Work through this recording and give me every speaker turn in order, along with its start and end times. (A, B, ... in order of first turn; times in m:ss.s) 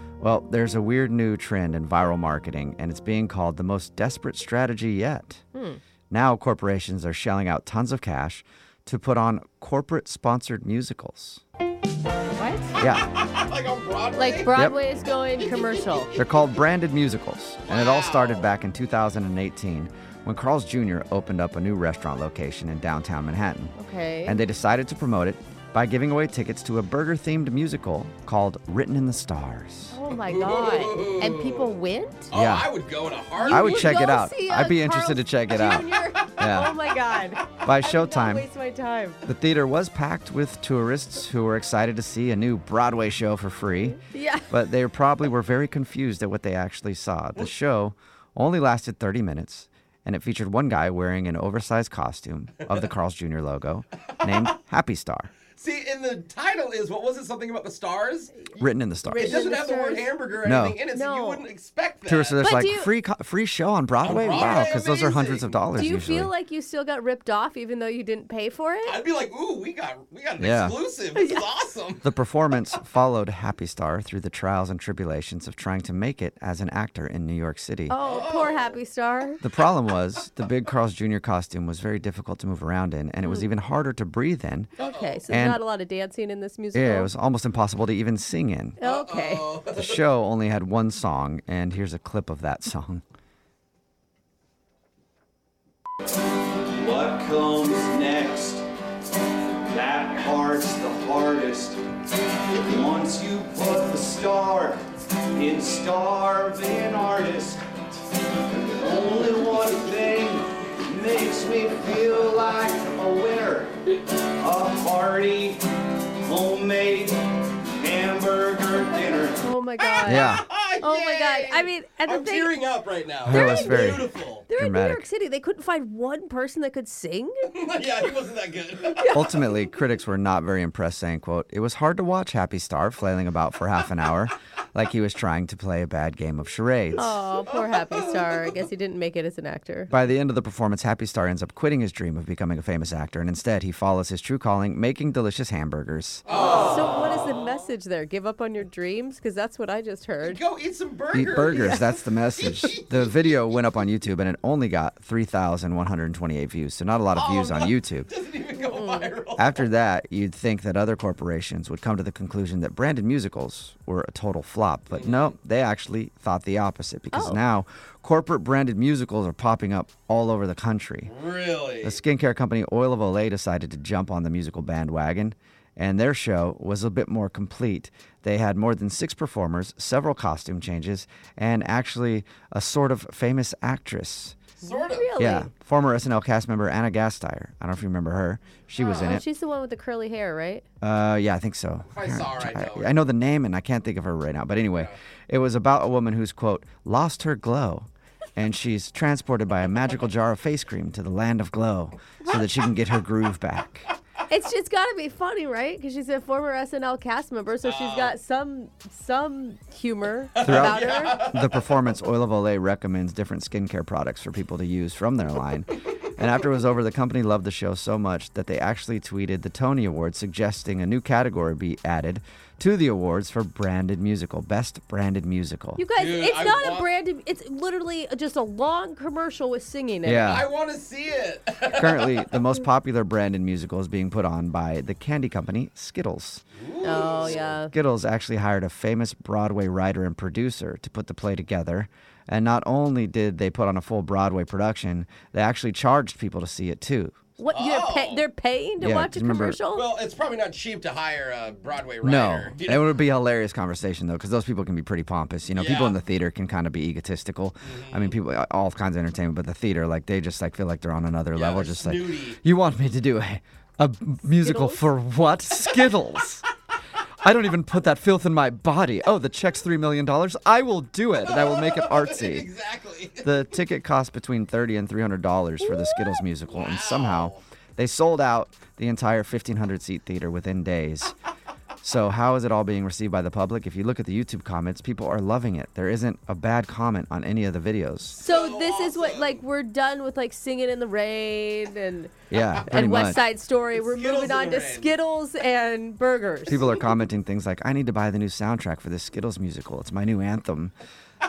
0:00.2-0:05.4 A
0:05.5-0:05.8 B
0:06.1-0:11.4 A
0:12.4-0:12.8 B
0:12.8-0:13.1 A
0:13.0-0:14.7 C
0:14.2-0:16.2 B
0:14.5-0:14.8 A
0:15.5-0:16.0 C
0:16.2-0:30.0 A
0:17.7-0:18.5 C
0:23.8-0:24.4 B
0:29.9-0:32.3 B
0:30.1-0:31.7 C
0:32.3-0:34.0 C
0:32.3-0:32.7 A
0:33.4-0:39.2 B
0:33.5-0:36.7 A
0:37.6-0:38.5 A
0:39.2-0:55.3 A
0:44.1-0:44.5 B
0:54.2-0:54.5 C
0:55.5-1:02.4 C
0:58.6-0:59.4 A
0:59.0-1:00.2 B
1:00.4-1:00.8 A
1:00.9-1:01.5 B
1:02.1-1:06.3 A
1:02.4-1:02.9 B
1:04.0-1:05.5 C
1:05.8-1:09.0 B
1:08.8-1:12.1 C
1:10.4-1:10.8 A
1:11.2-1:11.5 B
1:12.0-1:18.0 A
1:17.9-1:19.4 B
1:18.0-1:18.7 C
1:19.4-1:24.7 A
1:24.8-1:25.2 C
1:24.8-1:27.1 B
1:25.3-1:25.6 A
1:26.7-1:28.8 A
1:28.8-1:29.5 B
1:28.8-1:30.0 C
1:29.7-1:33.0 A
1:36.6-1:38.7 D
1:39.5-1:41.8 D
1:42.4-1:47.6 D
1:48.5-1:59.4 D
1:59.4-2:02.5 B
1:59.8-2:04.5 C
2:00.0-2:00.5 A
2:03.3-2:05.0 A
2:03.3-2:07.6 B
2:07.5-2:09.1 C
2:08.9-2:09.6 B
2:09.1-2:17.2 A
2:17.0-2:19.9 B
2:17.9-2:18.5 C
2:19.9-2:26.3 A
2:26.3-2:27.3 C
2:26.3-2:30.4 B
2:30.2-2:33.4 C
2:31.1-2:38.1 A
2:31.4-2:31.9 B
2:37.1-2:39.7 C
2:38.6-2:39.1 B
2:39.4-2:51.1 A
2:44.9-2:45.3 C
2:47.1-2:47.4 B
2:51.1-2:52.0 C
2:51.8-3:04.4 A
3:04.6-3:05.1 C
3:04.6-3:05.5 B
3:05.2-3:09.2 A
3:08.8-3:09.2 C
3:08.8-3:10.6 B
3:10.8-3:23.9 A
3:11.9-3:13.1 C
3:24.3-3:31.3 B
3:27.6-3:28.1 C
3:30.4-3:31.6 C
3:30.4-3:45.8 A
3:45.8-3:50.3 B
3:46.0-3:46.9 C
3:50.0-3:50.5 A
3:50.2-3:52.4 C
3:51.7-3:56.4 A
3:56.6-3:57.5 C
3:56.8-3:57.7 B
3:57.2-4:07.2 A
4:07.4-4:09.9 B
4:07.5-4:08.2 C
4:08.8-4:09.6 A
4:09.7-4:13.0 C
4:12.0-4:26.5 A
4:15.5-4:16.0 C
4:17.6-4:18.2 C
4:21.3-4:22.4 C
4:24.4-4:24.8 B
4:27.2-4:32.5 A
4:31.3-4:33.3 C
4:33.2-4:41.2 A
4:36.5-4:37.4 C
4:41.8-4:48.2 A
4:48.2-4:49.4 C
4:48.2-4:56.6 B
4:52.3-4:53.2 A
4:53.7-4:54.9 C
4:56.5-5:00.7 A